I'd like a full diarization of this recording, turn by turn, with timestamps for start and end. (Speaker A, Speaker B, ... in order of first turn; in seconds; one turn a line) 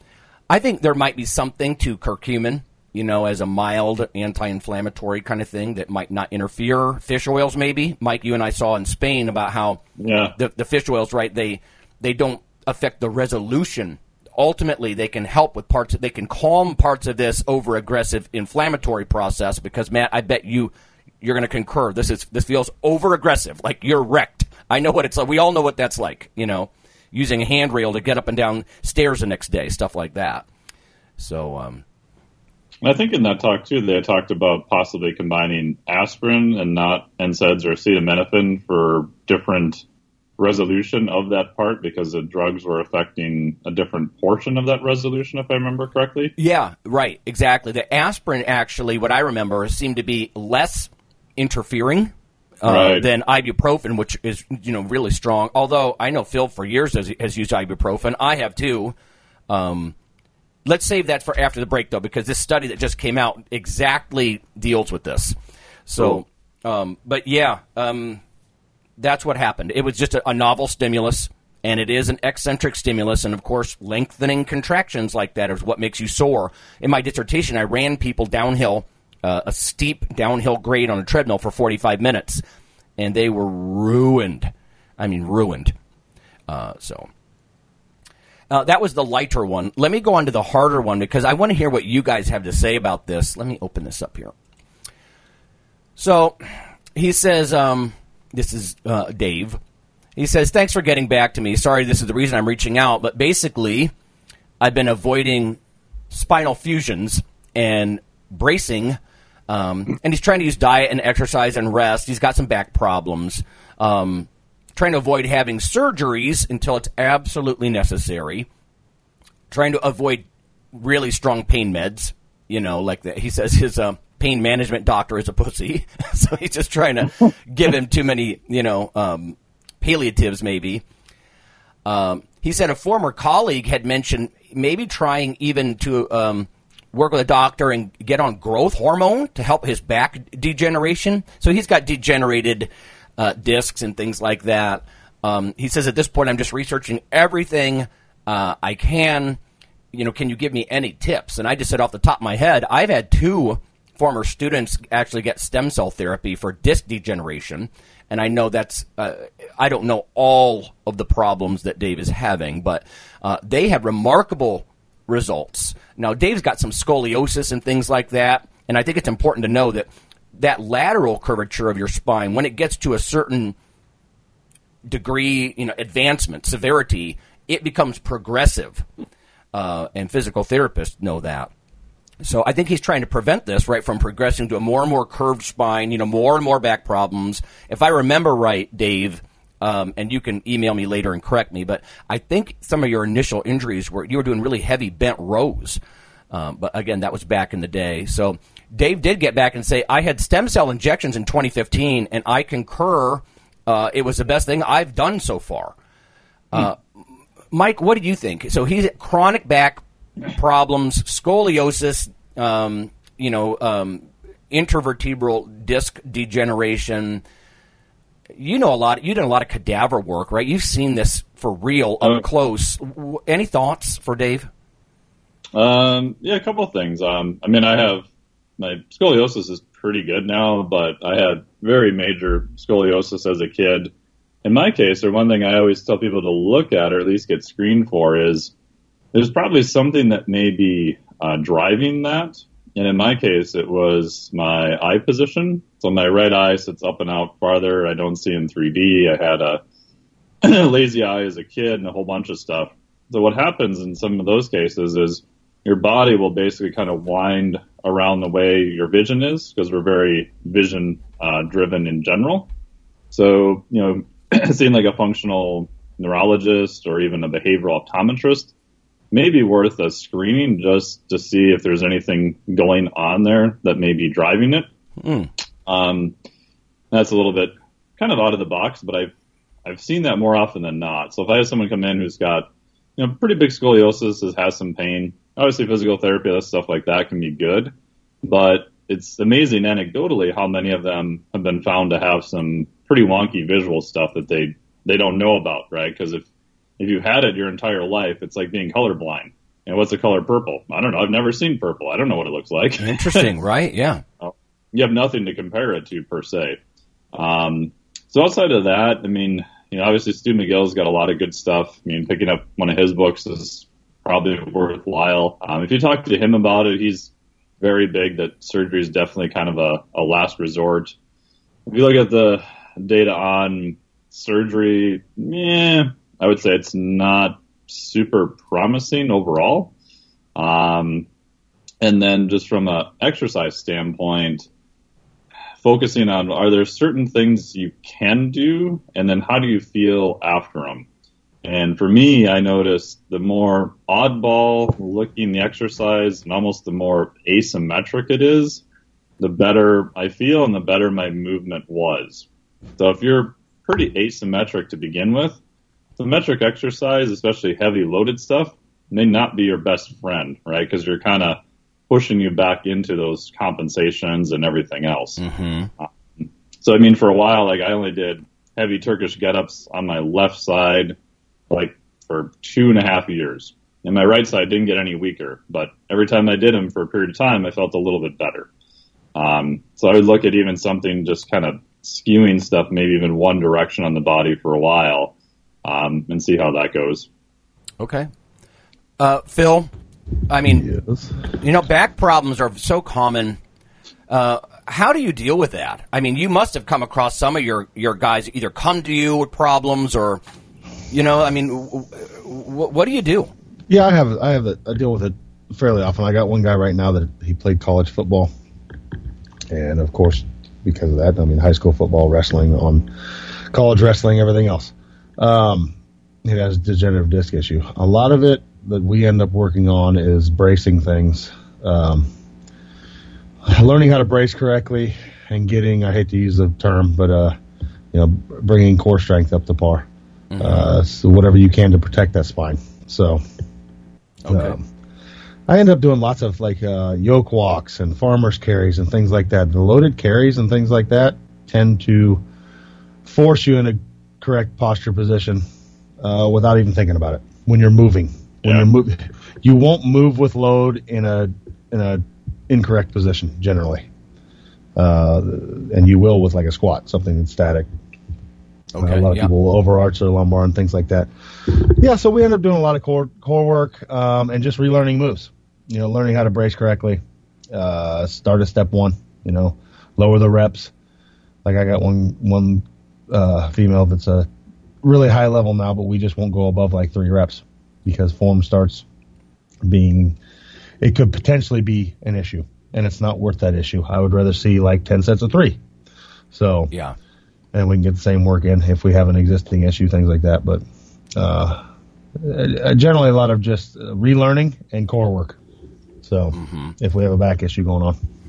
Speaker A: 0.5-9.8
Speaker B: 10.0-10.3
Speaker A: 10.3-30.4
Speaker A: 31.2-31.8
Speaker B: 32.8-39.8
Speaker B: 40.4-46.3
Speaker A: 46.4-58.9
Speaker B: 52.6-53.0
Speaker A: 59.5-59.9
Speaker A: 60.6-68.2
Speaker A: 69.0-82.4
Speaker A: 83.0-85.7
Speaker A: 86.5-87.1
Speaker A: 88.5-94.3
Speaker A: 96.0-96.4
Speaker A: 96.9-99.6
Speaker A: 100.2-103.9
Speaker A: 104.6-105.6
Speaker A: 106.1-109.0
Speaker A: 109.5-118.5
Speaker A: 119.5-130.8
Speaker A: 131.8-149.4
Speaker A: 149.9-173.5
Speaker A: 174.8-178.8
Speaker A: 179.5-181.5
Speaker A: 182.2-195.8
Speaker A: 196.3-205.7
Speaker A: 206.5-206.8
Speaker A: 207.5-217.2
Speaker A: 218.3-224.5
Speaker B: 225.5-228.1
Speaker B: 228.6-233.9
Speaker B: 234.4-238.5
Speaker B: 239.1-249.6
Speaker B: 250.4-262.5
Speaker B: 263.1-268.5
Speaker B: 269.1-274.7
Speaker A: 275.0-275.3
Speaker B: 275.7-276.1
Speaker B: 276.9-279.1
Speaker B: 279.6-287.7
Speaker B: 288.2-296.2
Speaker B: 296.8-303.3
Speaker A: 302.8-304.0
Speaker B: 304.2-306.6
Speaker B: 307.1-320.9
Speaker B: 321.7-329.7
Speaker B: 330.4-331.1
Speaker B: 331.8-334.5
Speaker B: 335.6-340.9
Speaker B: 341.4-348.6
Speaker B: 349.2-352.3
Speaker B: 352.8-355.4
Speaker B: 356.0-365.2
Speaker A: 365.2-365.7
Speaker B: 365.8-370.9
Speaker B: 371.5-378.5
Speaker B: 379.1-387.1
Speaker A: 387.8-388.1
Speaker A: 389.0-389.7
Speaker A: 390.3-390.6
Speaker C: 390.5-391.1
Speaker A: 391.3-393.4
Speaker A: 394.1-400.2
Speaker A: 400.9-403.3
Speaker C: 403.7-408.3
Speaker C: 409.5-412.9
Speaker C: 413.5-415.7
Speaker C: 416.2-422.1
Speaker C: 423.4-427.3
Speaker C: 427.9-429.9
Speaker A: 430.3-430.7
Speaker C: 430.4-433.2
Speaker A: 434.2-434.5
Speaker C: 434.3-434.6
Speaker C: 435.5-442.2
Speaker C: 443.0-445.4
Speaker C: 446.0-453.8
Speaker C: 454.8-457.7
Speaker A: 458.7-459.3
Speaker C: 458.8-467.0
Speaker C: 467.5-470.7
Speaker C: 471.4-474.3
Speaker C: 474.8-478.8
Speaker C: 479.6-480.2
Speaker C: 480.8-485.6
Speaker C: 486.3-486.7
Speaker A: 486.7-486.9
Speaker C: 487.5-490.6
Speaker C: 491.1-491.6
Speaker C: 492.2-495.4
Speaker C: 496.0-497.9
Speaker A: 496.3-496.7